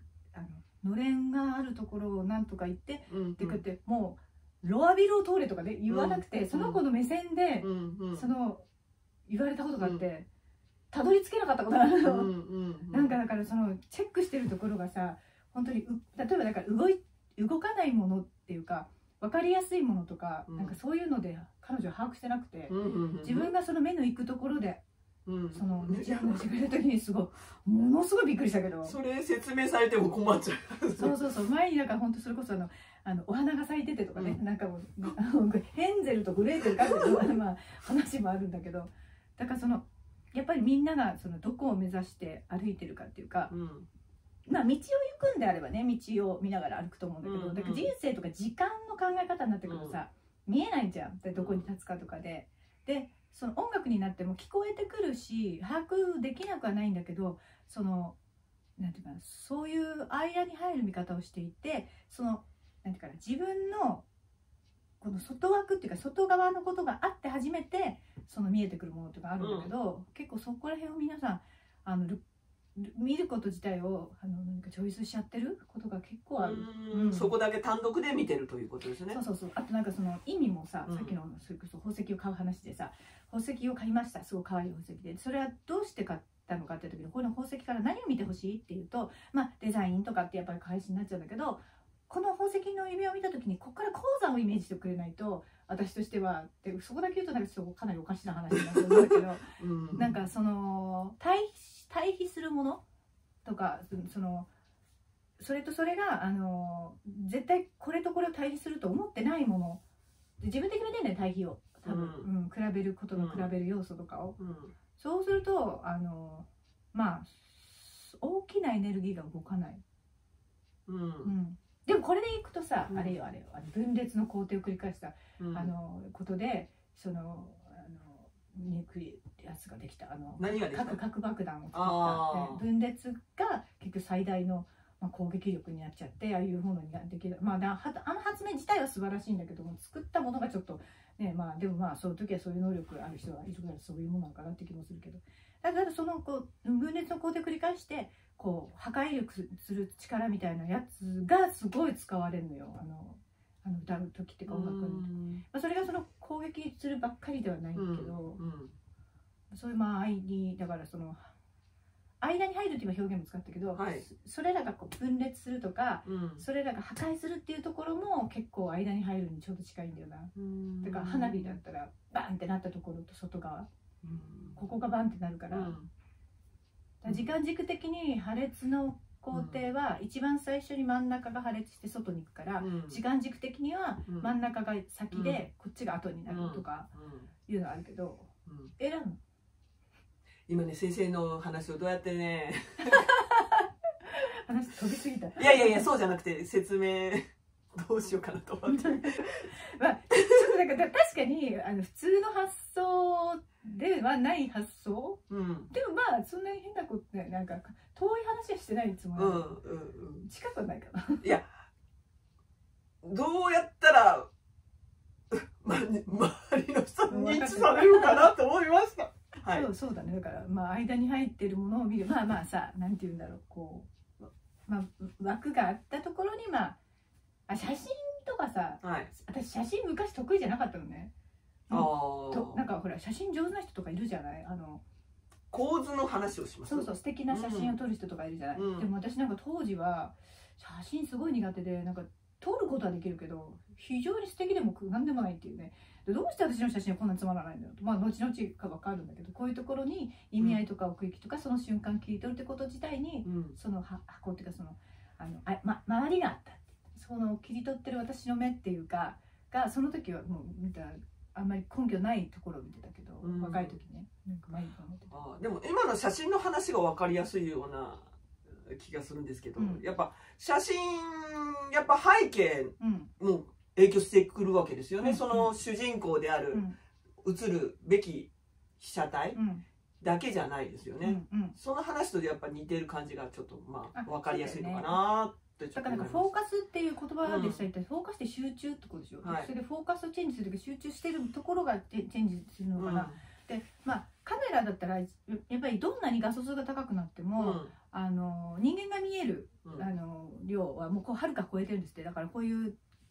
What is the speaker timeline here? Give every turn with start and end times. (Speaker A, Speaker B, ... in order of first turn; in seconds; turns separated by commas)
Speaker A: 0.3-8.7, Speaker B: 3.1-3.6, Speaker B: 5.9-6.8, Speaker B: 7.6-8.3, Speaker A: 9.3-10.3, Speaker A: 10.9-12.3, Speaker B: 12.0-13.2, Speaker A: 12.9-24.8, Speaker B: 20.5-20.8, Speaker B: 22.7-23.5, Speaker B: 25.3-26.4, Speaker A: 25.5-28.9, Speaker B: 28.8-31.1, Speaker A: 31.0-43.5, Speaker B: 34.1-34.4, Speaker B: 36.7-37.3, Speaker B: 43.5-43.9, Speaker A: 44.5-58.2, Speaker B: 47.2-47.9, Speaker B: 49.7-50.0, Speaker B: 51.3-51.7, Speaker A: 58.8-64.1, Speaker A: 65.0-72.2, Speaker B: 69.4-69.7, Speaker A: 72.8-77.3, Speaker B: 76.4-79.2, Speaker A: 79.1-102.8, Speaker B: 80.8-81.2, Speaker B: 99.6-100.2, Speaker A: 103.5-104.5, Speaker A: 105.4-109.8, Speaker A: 110.4-114.4, Speaker B: 111.9-112.3, Speaker B: 113.1-113.5, Speaker B: 114.4-114.7, Speaker A: 115.0-119.8, Speaker B: 120.9-121.3, Speaker A: 121.2-158.4, Speaker B: 122.9-123.2, Speaker B: 125.4-125.7, Speaker B: 130.4-131.0, Speaker B: 131.7-132.6, Speaker B: 154.5-155.4, Speaker B: 157.8-158.7, Speaker A: 159.5-161.3, Speaker A: 162.2-173.7, Speaker B: 163.8-164.1, Speaker B: 166.1-166.4, Speaker B: 170.3-171.6, Speaker B: 174.0-174.6, Speaker A: 174.6-175.8, Speaker B: 175.5-175.9, Speaker A: 177.0-186.9, Speaker B: 177.1-177.3, Speaker B: 179.3-179.6, Speaker B: 182.6-183.0, Speaker B: 185.1-185.4, Speaker B: 186.3-187.3, Speaker A: 187.5-189.2, Speaker B: 188.5-188.7, Speaker B: 190.5-193.0, Speaker A: 192.9-195.9, Speaker B: 195.4-199.5, Speaker A: 198.7-209.5, Speaker B: 205.3-205.7, Speaker B: 209.2-210.3, Speaker A: 210.2-211.4, Speaker B: 211.2-211.5, Speaker B: 213.0-214.3, Speaker B: 215.3-219.7, Speaker A: 217.1-218.3, Speaker A: 219.5-226.8, Speaker A: 227.5-231.1, Speaker B: 228.8-229.1, Speaker A: 231.7-234.8, Speaker B: 231.7-232.6, Speaker B: 235.5-237.8, Speaker A: 236.6-265.1, Speaker B: 238.5-238.9, Speaker B: 253.2-253.6, Speaker B: 263.2-263.8, Speaker B: 265.1-276.6, Speaker A: 269.6-269.9, Speaker A: 272.8-273.1, Speaker A: 275.0-275.6, Speaker A: 276.5-276.8, Speaker B: 277.2-279.4, Speaker A: 279.3-279.6, Speaker B: 280.0-286.3, Speaker A: 281.0-281.6, Speaker A: 283.9-285.0, Speaker A: 285.8-302.8, Speaker B: 287.2-287.6, Speaker B: 289.2-289.5, Speaker B: 292.8-293.2, Speaker B: 297.4-297.7